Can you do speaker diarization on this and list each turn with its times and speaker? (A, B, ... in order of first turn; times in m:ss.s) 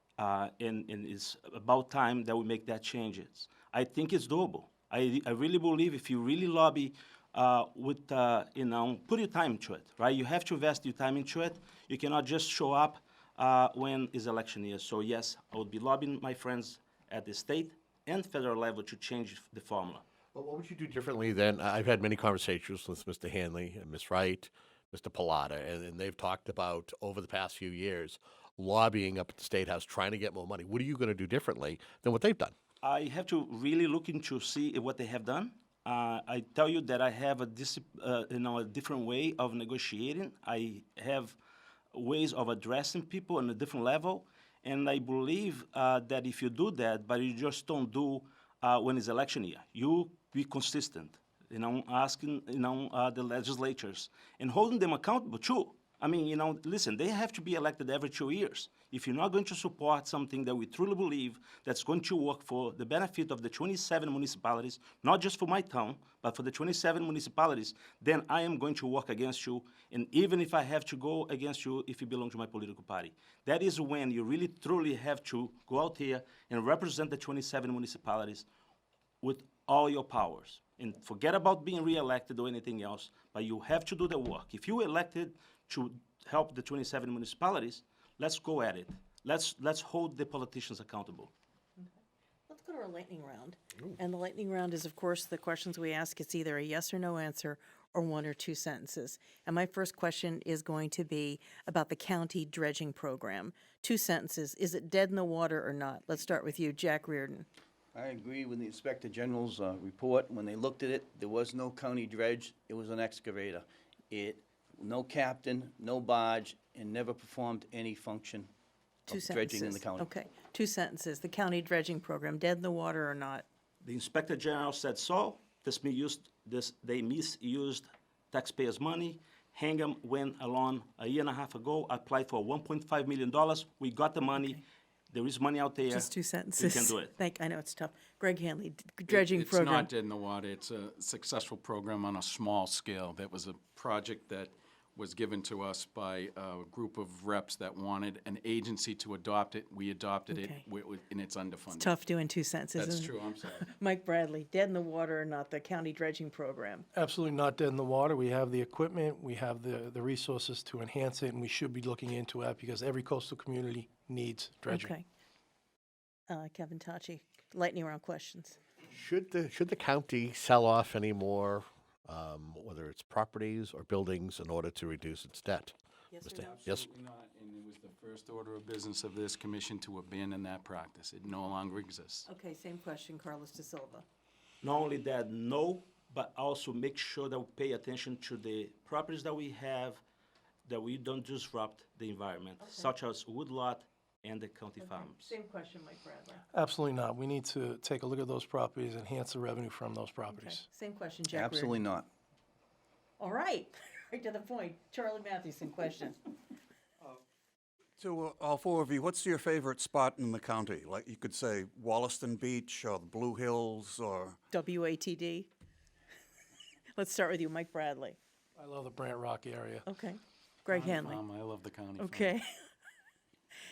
0:00.2-0:20.0 A
0:20.3-0:32.5 B
0:32.8-0:41.4 A
0:41.9-1:18.5 A
1:19.2-1:31.3 A
1:32.5-1:47.5 C
1:47.9-1:58.5 D
1:59.1-2:00.1 D
1:59.1-2:03.4 C
2:03.8-2:17.1 A
2:14.4-2:14.6 C
2:15.9-2:19.9 C
2:19.1-2:32.0 E
2:30.3-2:30.6 C
2:31.7-2:36.9 C
2:32.7-2:33.6 E
2:36.9-2:44.9 F
2:44.7-2:45.0 C
2:46.3-2:48.6 C
2:48.9-2:55.7 B
2:56.1-2:56.6 C
2:56.2-2:56.9 B
2:56.4-3:02.3 E
3:02.2-3:04.0 C
3:04.6-3:10.0 A
3:10.6-3:15.3 A
3:12.6-3:12.9 C
3:14.8-3:16.4 C
3:16.5-3:20.7 F
3:20.3-3:21.8 C
3:21.3-3:22.1 D
3:23.2-3:26.3 C
3:28.0-3:34.4 G
3:34.5-3:35.5 C
3:36.9-3:38.2 C
3:38.6-3:39.9 F
3:39.8-3:41.2 C
3:40.7-3:42.3 E
3:42.0-3:42.7 C